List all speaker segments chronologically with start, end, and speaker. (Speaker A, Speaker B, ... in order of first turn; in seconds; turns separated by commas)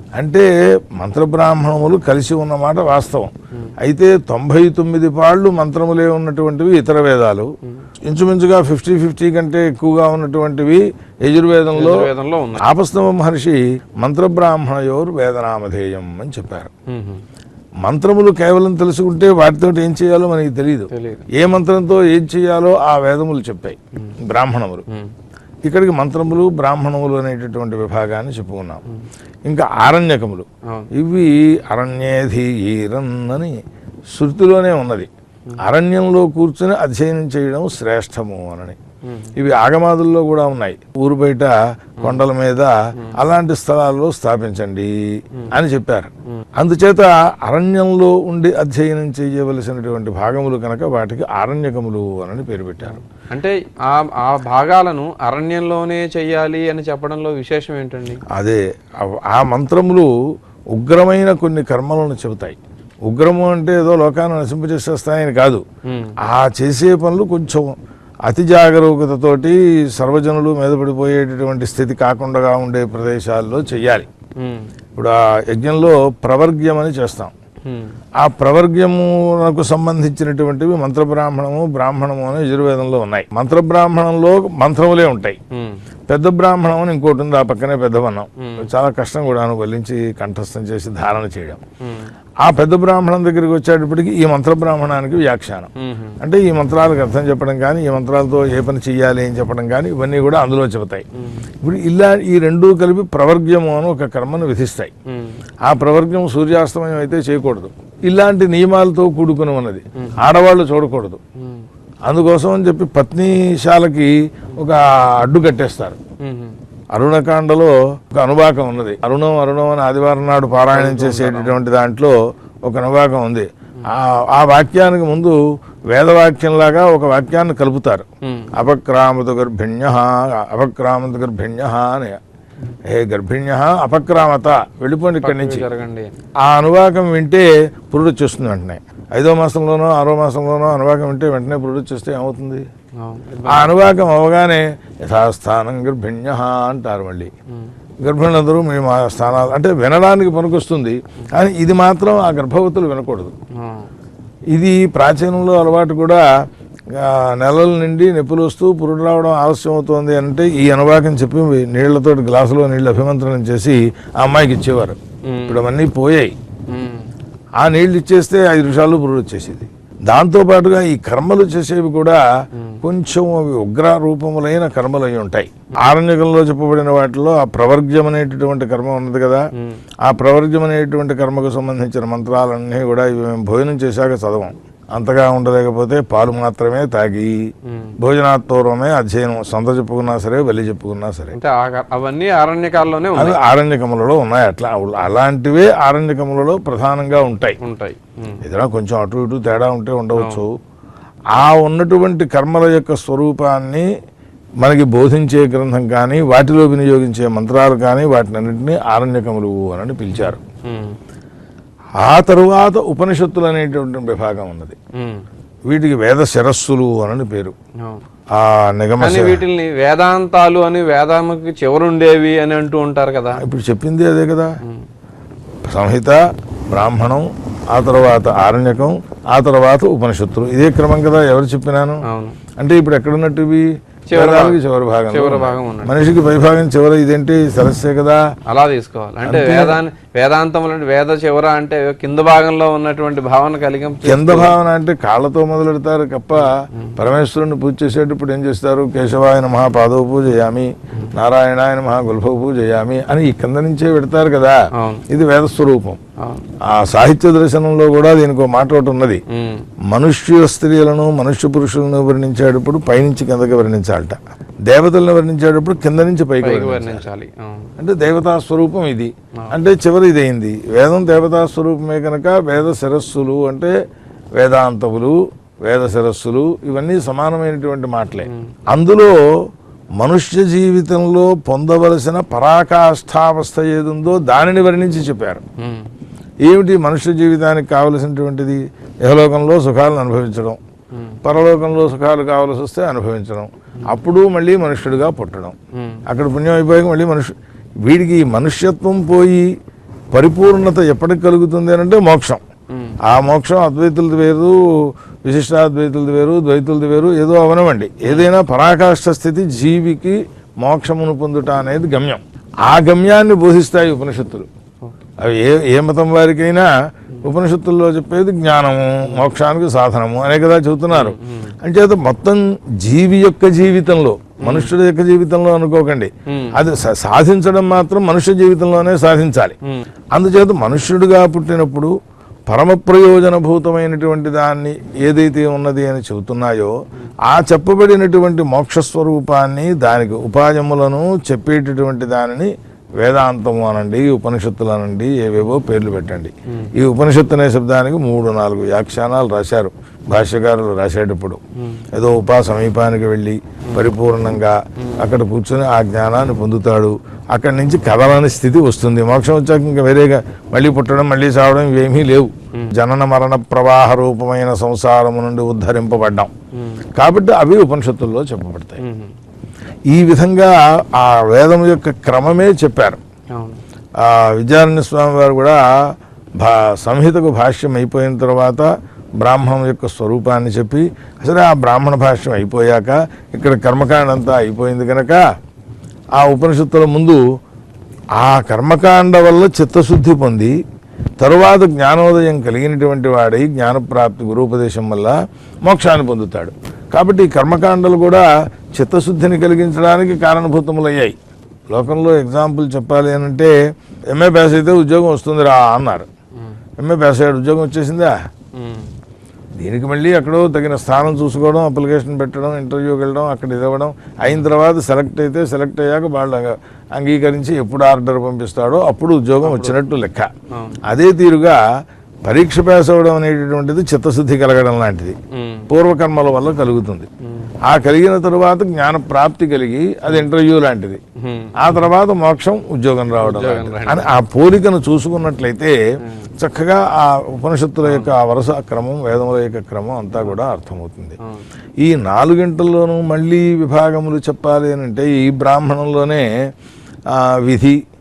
Speaker A: 0.2-7.5, Speaker A: 8.1-16.7, Speaker B: 11.7-12.7, Speaker B: 16.9-17.2, Speaker A: 17.8-24.8, Speaker B: 20.9-21.3, Speaker B: 24.9-25.1, Speaker A: 25.7-28.8, Speaker A: 29.5-33.6, Speaker A: 34.1-38.8, Speaker B: 39.0-39.3, Speaker A: 39.4-44.9, Speaker B: 42.0-42.2, Speaker A: 45.5-53.0, Speaker B: 52.9-58.2, Speaker A: 58.3-60.1, Speaker A: 60.7-65.6, Speaker B: 65.8-66.2, Speaker A: 66.2-74.1, Speaker B: 74.4-74.7, Speaker A: 75.0-77.3, Speaker B: 77.7-77.9, Speaker A: 78.2-85.4, Speaker B: 85.5-85.8, Speaker A: 86.1-91.6, Speaker B: 88.4-88.7, Speaker B: 91.8-92.1, Speaker A: 92.4-101.0, Speaker B: 95.8-96.2, Speaker B: 101.1-101.5, Speaker A: 101.6-104.9, Speaker B: 105.1-105.4, Speaker A: 105.7-111.2, Speaker B: 110.0-110.2, Speaker B: 111.4-111.7, Speaker A: 112.1-116.0, Speaker B: 116.2-116.6, Speaker A: 116.9-125.4, Speaker B: 120.7-121.6, Speaker A: 125.9-132.2, Speaker B: 128.2-128.5, Speaker A: 132.9-135.7, Speaker B: 135.2-136.2, Speaker A: 136.4-142.7, Speaker B: 143.0-143.7, Speaker A: 143.5-147.3, Speaker A: 148.0-153.3, Speaker B: 153.5-153.9, Speaker A: 154.5-156.2, Speaker A: 156.9-166.3, Speaker B: 165.2-165.6, Speaker B: 166.7-167.1, Speaker A: 167.6-172.2, Speaker B: 172.5-172.8, Speaker A: 172.8-179.4, Speaker B: 179.5-179.8, Speaker A: 180.0-187.4, Speaker B: 187.7-187.9, Speaker A: 188.0-191.4, Speaker B: 191.3-193.4, Speaker A: 193.2-197.6, Speaker B: 197.6-198.4, Speaker A: 198.4-200.6, Speaker B: 200.2-200.4, Speaker A: 201.3-203.9, Speaker A: 204.6-210.4, Speaker B: 210.1-211.0, Speaker A: 212.0-214.8, Speaker B: 214.9-215.2, Speaker A: 215.7-217.6, Speaker A: 218.3-219.4, Speaker B: 219.0-223.4, Speaker A: 223.4-224.5, Speaker A: 225.7-232.0, Speaker B: 232.1-232.4, Speaker A: 232.6-238.2, Speaker B: 234.1-236.0, Speaker B: 238.5-244.6, Speaker A: 239.2-239.8, Speaker A: 244.0-256.0, Speaker B: 246.4-247.0, Speaker B: 254.8-255.1, Speaker B: 256.2-256.4, Speaker A: 256.7-259.2, Speaker B: 259.3-259.7, Speaker A: 259.9-264.2, Speaker A: 264.7-267.1, Speaker B: 266.4-267.7, Speaker A: 267.8-273.8, Speaker A: 274.4-279.2, Speaker B: 278.2-278.5, Speaker A: 280.0-285.4, Speaker B: 285.6-285.9, Speaker A: 286.4-290.6, Speaker B: 290.9-291.2, Speaker A: 291.2-295.6, Speaker B: 295.7-296.0, Speaker A: 296.1-299.5, Speaker A: 300.1-302.4, Speaker B: 302.7-303.0, Speaker A: 303.0-314.5, Speaker B: 308.0-308.3, Speaker A: 315.2-316.7, Speaker A: 317.2-329.6, Speaker B: 319.1-319.3, Speaker B: 320.9-321.6, Speaker B: 324.4-324.7, Speaker B: 326.3-326.6, Speaker A: 330.1-331.9, Speaker A: 332.5-336.7, Speaker A: 337.2-351.4, Speaker B: 346.5-346.7, Speaker B: 351.6-351.9, Speaker A: 351.9-366.3, Speaker B: 354.8-355.1, Speaker B: 366.5-366.9, Speaker A: 367.0-368.8, Speaker B: 368.8-369.1, Speaker A: 369.9-373.0, Speaker B: 373.3-373.6, Speaker A: 374.0-378.7, Speaker A: 379.2-385.2, Speaker A: 386.2-387.2, Speaker A: 388.2-390.5, Speaker A: 391.2-395.1, Speaker A: 395.6-401.2, Speaker A: 401.7-403.5, Speaker A: 404.1-406.1, Speaker A: 406.8-408.2, Speaker B: 408.5-408.9, Speaker A: 409.6-420.3, Speaker B: 419.4-419.8, Speaker B: 420.5-420.8, Speaker A: 420.9-421.6, Speaker A: 422.2-425.2, Speaker B: 425.3-425.7, Speaker A: 425.7-427.1, Speaker B: 427.2-427.5, Speaker A: 427.7-431.0, Speaker B: 431.2-431.8, Speaker A: 431.6-435.8, Speaker B: 433.2-434.1, Speaker B: 436.0-436.3, Speaker A: 436.4-441.2, Speaker B: 437.8-438.1, Speaker A: 441.8-446.3, Speaker A: 447.1-447.8